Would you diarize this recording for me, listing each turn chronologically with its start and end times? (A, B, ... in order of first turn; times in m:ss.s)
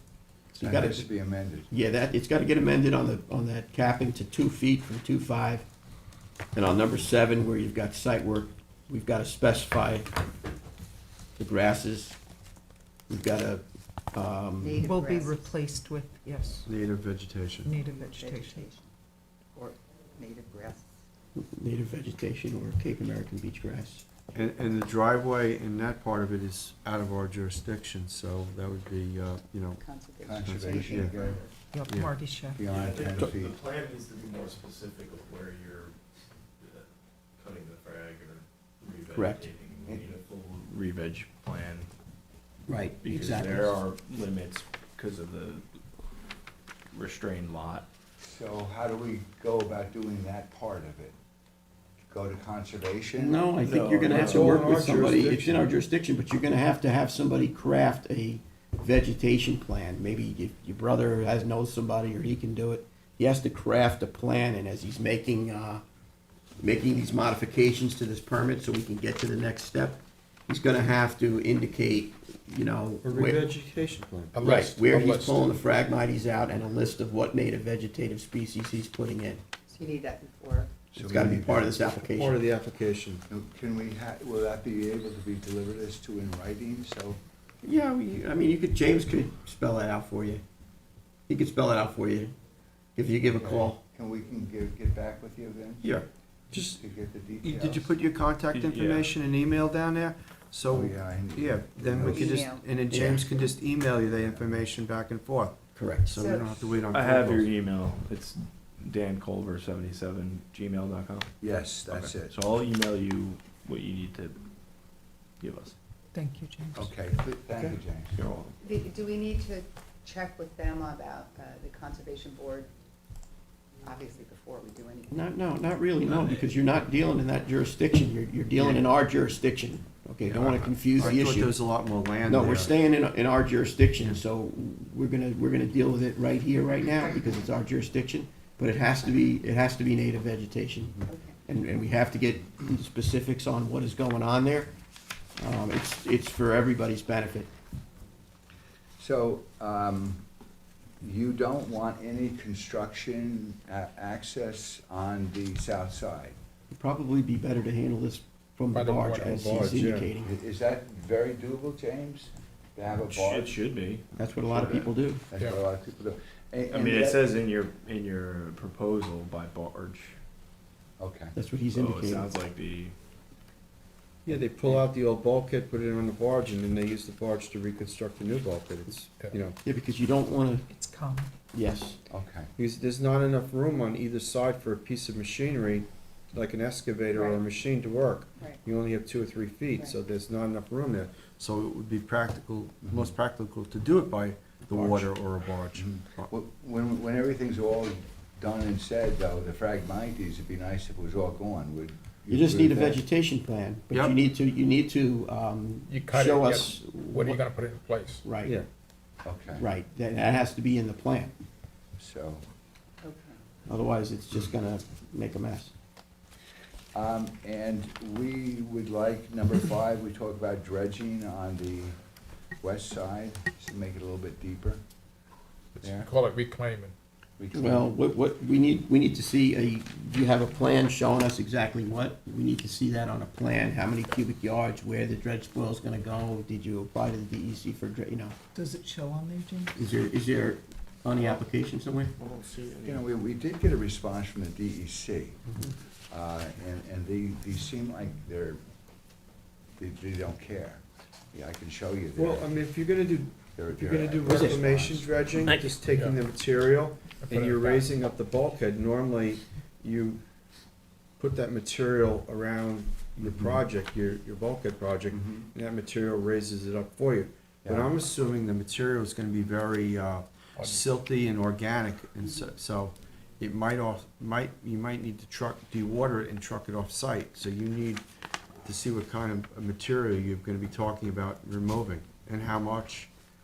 0:00.6-0:01.1 A
0:00.6-0:01.7 B
0:01.7-0:05.7 A
0:06.6-0:10.2 A
0:11.4-0:12.2 A
0:13.1-0:14.8 A
0:14.6-0:15.6 C
0:14.8-0:16.7 D
0:16.6-0:17.7 E
0:17.6-0:18.7 D
0:17.8-0:18.9 C
0:19.5-0:20.9 C
0:21.4-0:24.0 A
0:24.3-0:29.8 E
0:29.8-0:31.6 C
0:30.2-0:31.4 B
0:30.4-0:31.2 E
0:31.7-0:32.6 D
0:31.9-0:32.1 E
0:32.6-0:33.6 B
0:32.7-0:36.0 F
0:36.6-0:36.9 F
0:37.4-0:41.9 F
0:39.1-0:39.5 A
0:42.7-0:43.8 A
0:43.0-0:45.7 F
0:46.9-0:47.9 F
0:48.2-0:51.2 B
0:52.1-0:53.4 B
0:53.2-1:05.8 A
0:53.6-0:54.6 F
0:54.1-0:55.6 E
1:06.6-1:13.5 A
1:13.0-1:14.4 E
1:14.3-1:15.6 G
1:14.4-1:19.4 A
1:19.7-1:20.9 C
1:20.9-1:21.7 B
1:21.0-1:22.4 A
1:22.0-1:23.2 E
1:23.3-1:27.2 B
1:27.6-1:30.4 A
1:31.3-1:32.3 A
1:33.0-1:33.8 A
1:33.4-1:36.0 B
1:35.8-1:36.8 E
1:36.6-1:37.9 B
1:37.4-1:47.5 E
1:38.5-1:39.1 F
1:40.7-1:42.3 B
1:42.0-1:42.6 C
1:42.9-1:43.4 A
1:45.8-1:46.1 A
1:46.1-1:46.6 C
1:46.9-1:54.4 F
1:51.4-1:52.3 B
1:55.4-1:55.8 F
1:56.1-1:56.9 D
1:56.7-1:58.2 B
1:58.1-1:58.6 F
1:58.6-2:02.7 C
2:03.8-2:05.2 C
2:05.1-2:11.6 A
2:08.6-2:08.8 E
2:10.2-2:12.7 E
2:12.2-2:24.7 A
2:21.1-2:21.4 C
2:25.4-2:27.5 A
2:29.0-2:30.2 B
2:31.0-2:36.4 B
2:36.7-2:40.3 A
2:38.7-2:39.8 G
2:39.2-2:40.1 E
2:40.2-2:43.6 B
2:43.0-2:44.0 F
2:44.2-2:45.3 A
2:44.5-2:47.3 B
2:45.4-2:45.6 G
2:46.7-2:50.2 F
2:51.0-2:51.3 B
2:51.4-2:52.3 A
2:51.7-2:53.0 F
2:54.2-2:59.6 E
2:59.6-3:00.7 A
3:00.7-3:01.3 D
3:01.5-3:02.0 A
3:02.1-3:02.5 B
3:02.6-3:16.3 E
3:07.1-3:07.4 C
3:08.4-3:08.6 C
3:09.7-3:10.0 C
3:14.7-3:15.1 A
3:15.8-3:23.0 B
3:22.3-3:27.4 A
3:23.9-3:24.2 E
3:25.9-3:28.2 G
3:28.2-3:28.6 A
3:29.2-3:29.7 B
3:29.6-3:31.3 A
3:32.0-3:32.4 B
3:33.0-3:33.4 C
3:33.7-3:35.7 A
3:36.9-3:42.0 B
3:42.6-3:44.8 B
3:45.8-3:47.0 G
3:45.8-3:46.1 B
3:47.4-3:47.9 B
3:47.5-3:58.4 A
3:58.6-3:59.7 D
3:59.8-4:02.1 A
4:02.2-4:03.1 F
4:02.8-4:05.4 B
4:06.1-4:08.6 B
4:09.8-4:12.5 B
4:12.2-4:20.2 E
4:13.6-4:15.3 B
4:14.2-4:14.6 A
4:15.8-4:16.2 G
4:17.2-4:17.9 G
4:21.2-4:38.0 E
4:23.2-4:23.6 B
4:25.1-4:25.5 B
4:27.6-4:27.9 B
4:38.6-4:43.1 E